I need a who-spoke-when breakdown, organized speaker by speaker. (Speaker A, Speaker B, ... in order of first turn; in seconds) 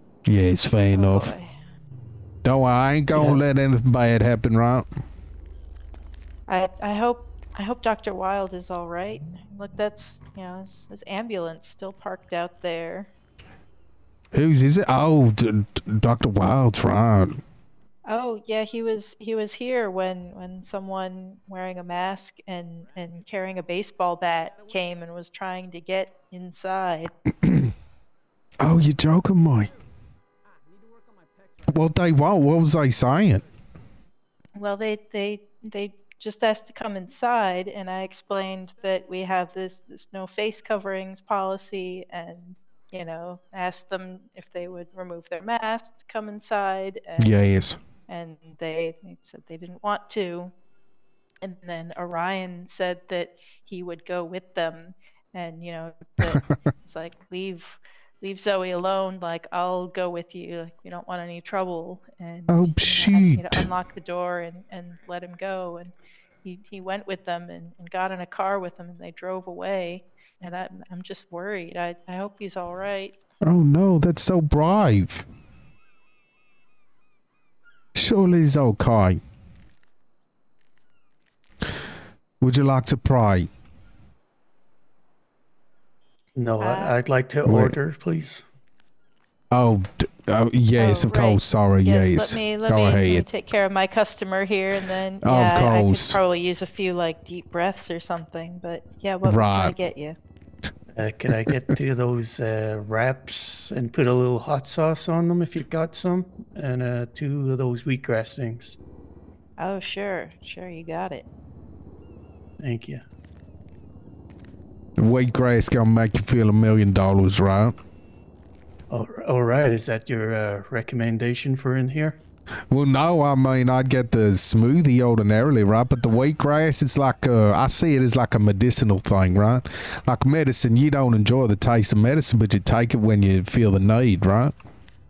Speaker A: 0.3-1.4, 2.4-4.9, 14.3-17.4, 28.6-29.7, 31.7-33.4, 47.2-47.8, 62.5-63.7, 73.4-75.3, 78.0-79.2, 82.4-83.5, 87.5-87.8, 89.5-93.2, 95.2-96.2, 99.2-99.8, 115.0-117.8, 122.7-134.6
Speaker B: 0.9-1.5, 6.5-13.1, 18.1-27.1, 34.6-47.4, 48.1-50.5, 51.4-65.9, 66.4-73.2, 86.6-87.0, 90.8-100.2, 109.6-111.3
Speaker C: 3.1-3.4, 86.3-88.4, 101.0-108.8, 112.6-113.0, 118.9-122.2